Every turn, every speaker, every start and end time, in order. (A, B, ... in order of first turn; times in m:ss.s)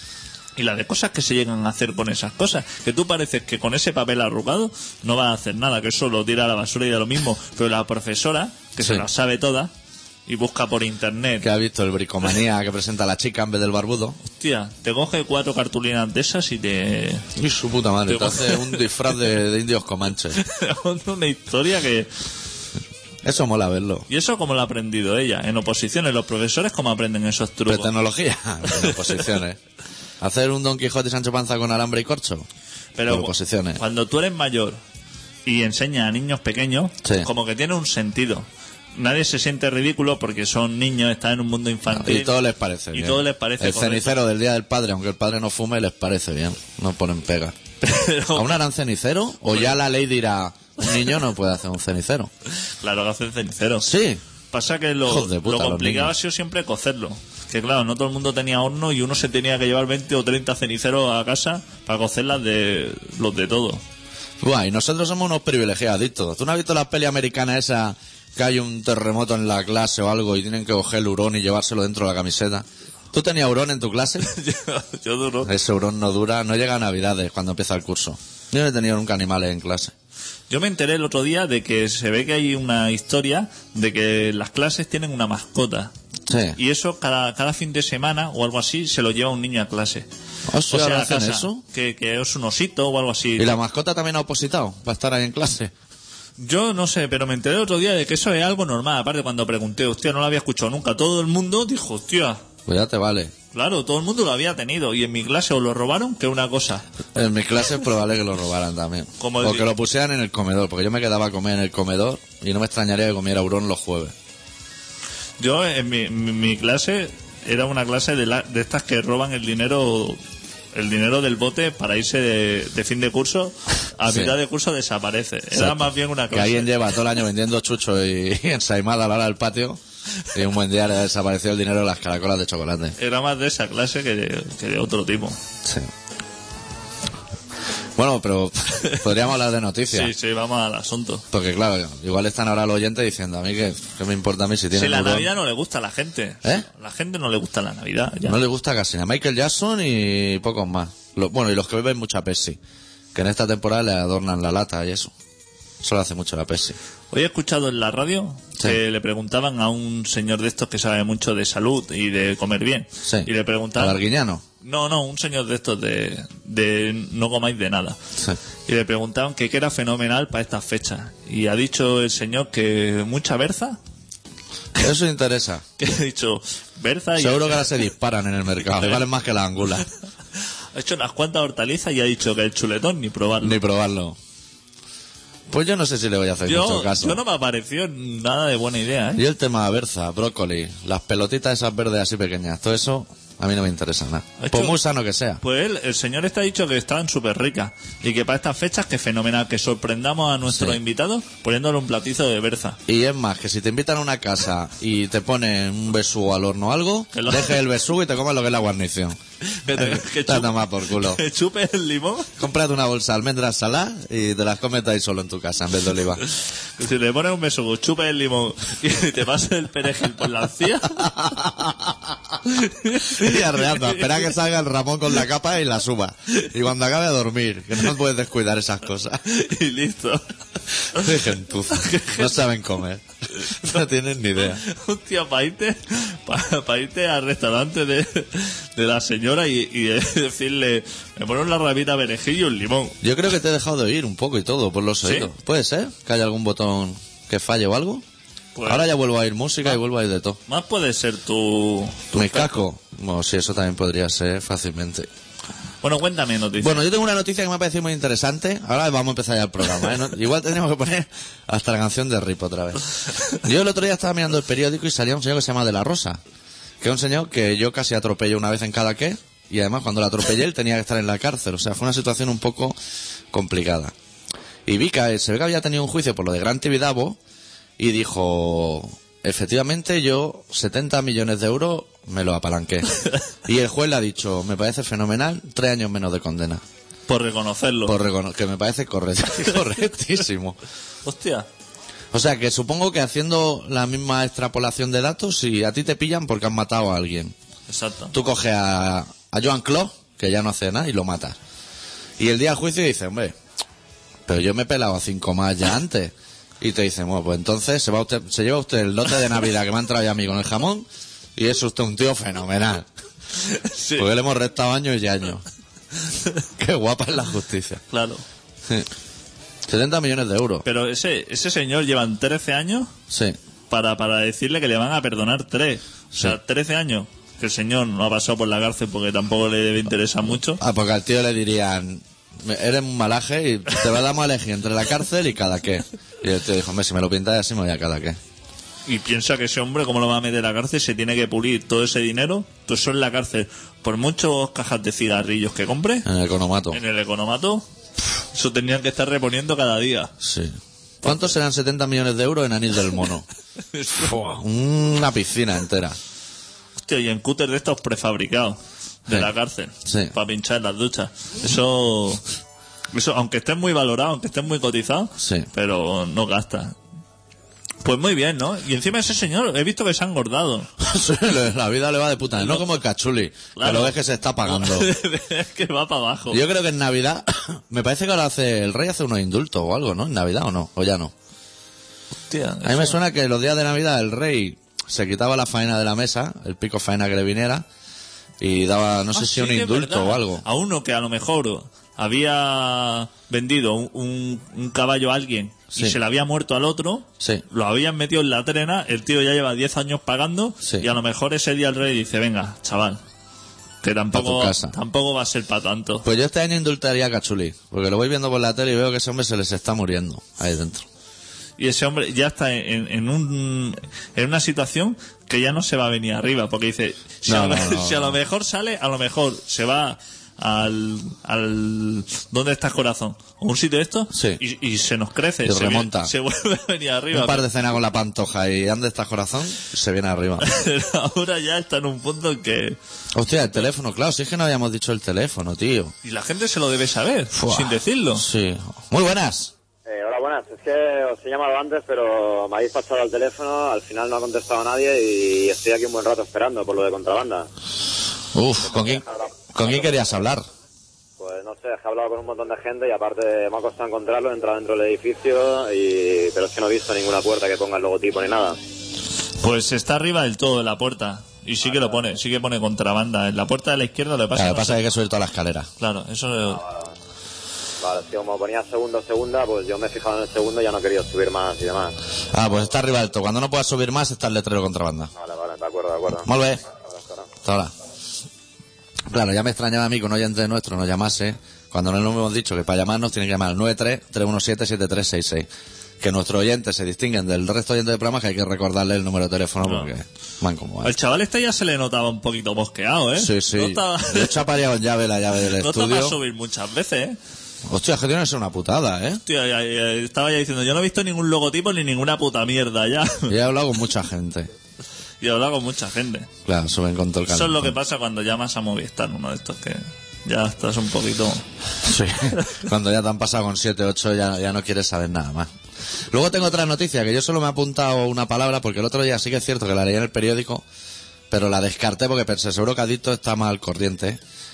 0:00.6-0:09.7 A
0:08.8-0:09.0 B
0:10.3-0:11.5 A
0:11.4-0:14.2 B
0:14.2-0:17.3 A
0:17.3-0:20.4 B
0:18.1-0:18.9 A
0:20.3-0:22.1 A
0:23.2-0:24.1 B
0:24.1-0:27.9 A
0:27.7-0:29.6 B
0:28.7-0:29.2 A
0:30.2-0:32.5 B
0:33.0-0:34.8 A
0:33.1-0:33.8 B
0:35.4-0:42.3 A
0:37.0-0:37.3 B
0:41.9-0:47.6 B
0:42.9-0:44.2 A
0:47.8-0:48.5 A
0:48.3-0:52.3 B
0:52.8-0:53.9 A
0:53.8-0:54.2 B
0:54.5-1:03.8 A
0:55.0-0:56.1 B
1:04.4-1:14.3 B
1:14.2-1:15.5 A
1:15.4-1:19.9 B
1:20.5-1:25.9 A
1:26.3-1:26.6 B
1:26.6-1:30.1 A
1:30.5-1:31.6 B
1:30.7-1:33.6 A
1:33.4-1:35.7 B
1:36.4-1:42.4 A
1:42.6-1:43.3 B
1:43.5-1:46.8 A
1:47.1-1:54.1 B
1:49.2-1:49.7 A
1:55.4-2:00.2 A
2:00.7-2:06.8 A
2:04.0-2:04.4 B
2:05.5-2:09.8 B
2:10.3-2:13.0 B
2:13.0-2:15.4 A
2:15.6-2:15.9 B
2:18.0-2:20.1 B
2:19.9-2:21.2 A
2:21.3-2:25.3 B
2:24.7-2:28.4 A
2:28.2-2:32.6 B
2:33.1-2:35.1 B
2:35.8-2:36.8 B
2:37.1-2:44.0 A
2:43.0-2:44.4 B
2:44.6-2:48.0 A
2:48.6-2:53.8 A
2:54.7-2:55.6 B
2:55.8-2:57.8 A
2:57.2-2:59.9 B
3:00.7-3:03.6 A
3:03.4-3:04.2 B
3:05.5-3:07.2 B
3:06.4-3:09.2 A
3:09.2-3:15.4 B
3:14.4-3:14.8 A
3:15.4-3:22.8 A
3:20.5-3:20.8 B
3:22.9-3:29.2 B
3:27.1-3:27.6 A
3:29.5-3:32.3 A
3:29.7-3:31.2 B
3:32.4-3:36.2 B
3:36.8-3:41.1 A
3:40.9-3:42.4 B
3:42.4-3:44.2 A
3:43.0-3:49.2 B
3:49.2-3:50.2 A
3:50.9-3:54.6 B
3:51.7-3:52.4 A
3:54.4-4:03.0 A
4:03.0-4:08.0 B
4:05.0-4:05.3 A
4:08.6-4:08.8 A
4:08.7-4:10.4 B
4:10.5-4:12.5 A
4:12.1-4:15.1 B
4:15.8-4:16.8 A
4:16.6-4:26.2 B
4:26.8-4:32.8 B
4:33.3-4:33.9 B
4:34.6-4:37.2 B
4:37.8-4:42.9 B
4:43.4-4:46.6 B
4:47.1-4:48.0 A
4:47.8-4:50.6 B
4:51.0-4:51.5 A
4:52.1-4:57.3 B
4:57.7-4:58.1 A
4:58.1-5:01.4 B
5:02.2-5:03.4 B
5:04.3-5:12.9 B
5:13.4-5:14.1 A
5:14.0-5:15.4 B
5:16.6-5:17.8 B
5:17.9-5:18.2 A
5:19.7-5:20.6 B
5:20.6-5:22.9 A
5:23.1-5:23.4 B
5:23.7-5:30.6 A
5:30.6-5:38.2 B
5:38.9-5:46.1 A
5:46.0-5:46.8 B
5:46.7-5:47.6 A
5:48.3-5:50.1 A
5:50.2-5:53.2 B
5:53.7-5:54.1 A
5:53.9-5:56.0 B
5:56.8-6:02.2 A
5:59.8-6:00.1 B
6:02.9-6:06.8 A
6:05.2-6:05.5 B
6:07.8-6:10.7 A
6:10.8-6:14.9 B
6:13.6-6:16.4 A
6:16.3-6:21.1 B
6:22.3-6:23.0 A
6:22.6-6:27.6 B
6:28.4-6:30.4 B
6:29.1-6:43.0 A
6:40.6-6:40.9 B
6:43.8-6:46.0 A
6:44.1-6:44.7 B
6:46.0-6:50.8 B
6:51.6-7:07.4 A
6:57.2-6:58.2 B
7:04.1-7:04.4 B
7:05.4-7:06.1 B
7:07.1-7:10.4 B
7:10.4-7:12.8 A
7:13.1-7:15.9 B
7:16.0-7:18.2 A
7:17.3-7:19.5 B
7:19.8-7:27.5 C
7:28.3-7:30.4 B
7:28.8-7:30.1 C
7:31.2-7:38.6 C
7:39.4-7:44.8 A
7:44.3-7:45.7 B
7:45.8-7:46.6 A
7:47.8-7:52.0 C
7:52.3-7:55.1 B
7:55.2-7:56.3 C
7:56.2-7:56.6 B
7:57.4-7:57.7 B
7:59.1-8:05.5 B
8:06.0-8:10.9 B
8:09.6-8:09.9 A
8:10.8-8:14.5 A
8:13.2-8:16.2 B
8:15.5-8:17.2 A
8:17.6-8:19.2 B
8:19.2-8:23.3 A
8:23.3-8:24.5 B
8:25.2-8:26.3 A
8:26.4-8:27.7 B
8:27.3-8:31.4 A
8:31.8-8:35.5 B
8:36.1-8:40.6 B
8:41.3-8:44.2 B